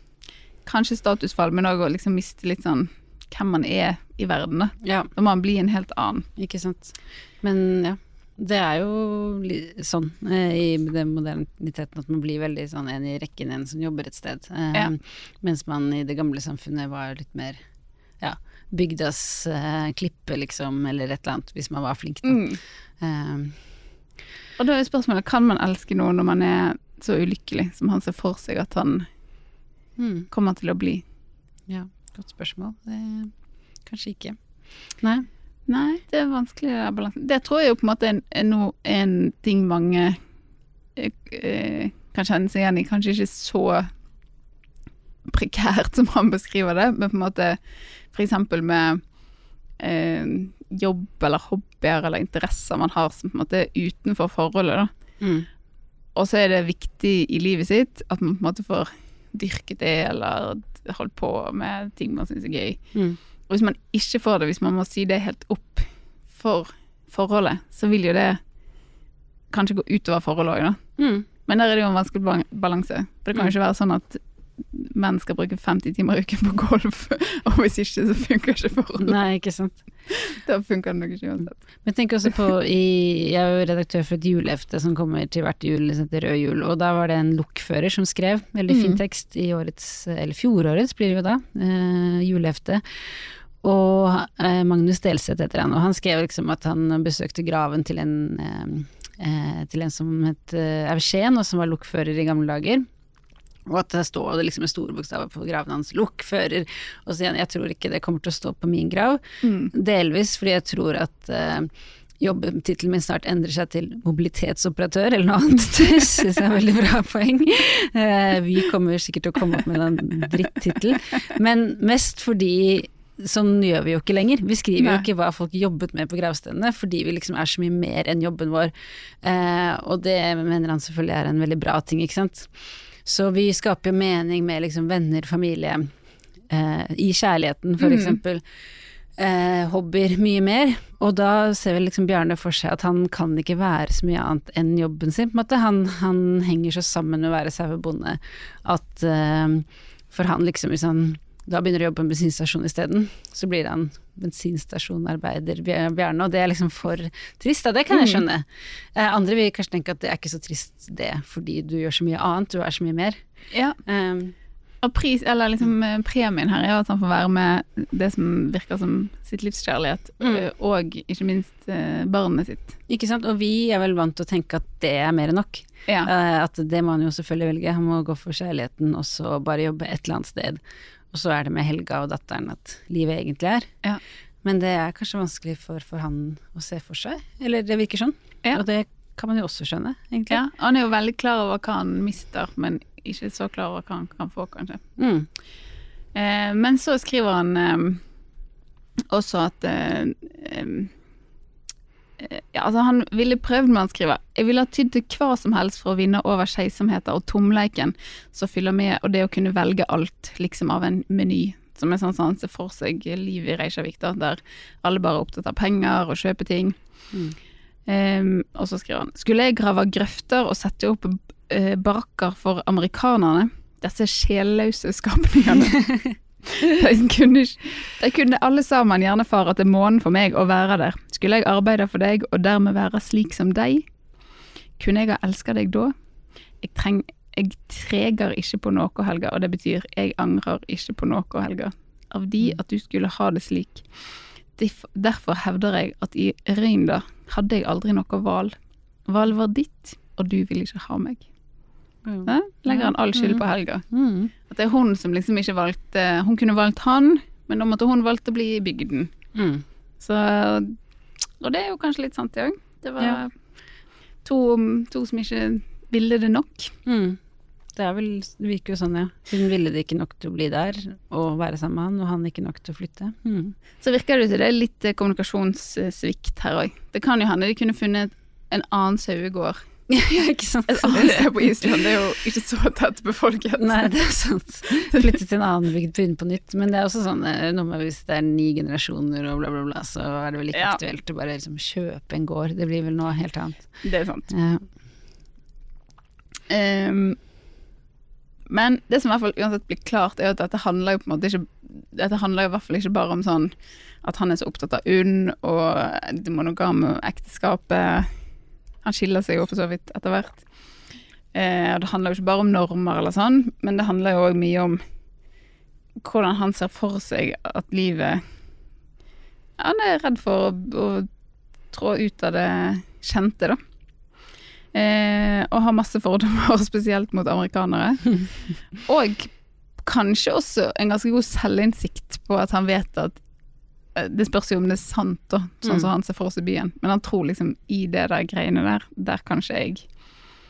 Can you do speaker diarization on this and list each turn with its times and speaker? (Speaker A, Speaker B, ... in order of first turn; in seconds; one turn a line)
Speaker A: 0.6-6.3
Speaker B: 4.8-5.1
Speaker B: 6.4-17.6
Speaker B: 18.2-22.5
Speaker A: 22.2-22.6
Speaker B: 23.0-23.6
Speaker A: 24.6-29.1
Speaker B: 30.0-30.3
Speaker A: 30.3-31.0
Speaker B: 31.7-35.3
Speaker A: 35.7-40.2
Speaker A: 41.0-43.9
Speaker A: 45.2-47.6
Speaker A: 48.1-49.0
Speaker A: 49.8-54.9
Speaker B: 55.2-55.5
Speaker A: 56.1-62.8
Speaker A: 63.5-68.4
Speaker A: 69.5-70.8
Speaker B: 71.0-71.2
Speaker A: 71.4-79.2
Speaker B: 79.0-79.8
Speaker A: 80.1-81.6
Speaker B: 81.8-92.8
Speaker A: 88.7-89.0
Speaker B: 93.6-102.9
Speaker B: 103.7-109.2
Speaker A: 109.4-109.7
Speaker B: 109.7-132.5
Speaker A: 124.8-125.0
Speaker B: 133.0-135.9
Speaker B: 136.5-138.4
Speaker A: 137.8-138.2
Speaker B: 139.2-163.2
Speaker A: 157.9-158.2
Speaker A: 163.5-163.8
Speaker B: 163.8-164.3
Speaker A: 164.8-172.8
Speaker B: 172.9-180.6
Speaker B: 181.1-183.7
Speaker B: 184.4-190.4
Speaker A: 190.3-194.8
Speaker B: 195.0-195.3
Speaker A: 196.1-198.0
Speaker A: 199.1-200.9
Speaker A: 202.2-216.8
Speaker A: 217.9-233.8
Speaker A: 234.8-235.9
Speaker A: 236.6-243.9
Speaker A: 244.5-248.5
Speaker A: 249.1-251.2
Speaker B: 252.1-254.3
Speaker A: 252.3-253.8
Speaker A: 254.4-259.1
Speaker B: 259.3-259.6
Speaker A: 260.0-260.7
Speaker A: 261.4-263.3
Speaker A: 264.2-266.7
Speaker B: 266.9-267.2
Speaker B: 267.8-273.5
Speaker A: 273.8-279.6
Speaker B: 279.9-281.3
Speaker A: 280.7-283.9
Speaker B: 283.6-294.6
Speaker A: 284.9-285.2
Speaker A: 290.5-290.8
Speaker A: 293.8-294.3
Speaker A: 296.5-297.2
Speaker A: 298.5-308.1
Speaker A: 308.8-310.4
Speaker A: 311.3-314.8
Speaker A: 316.0-318.2
Speaker A: 319.6-321.1
Speaker A: 321.7-323.6
Speaker A: 324.7-333.2
Speaker A: 333.9-339.9
Speaker B: 335.6-335.9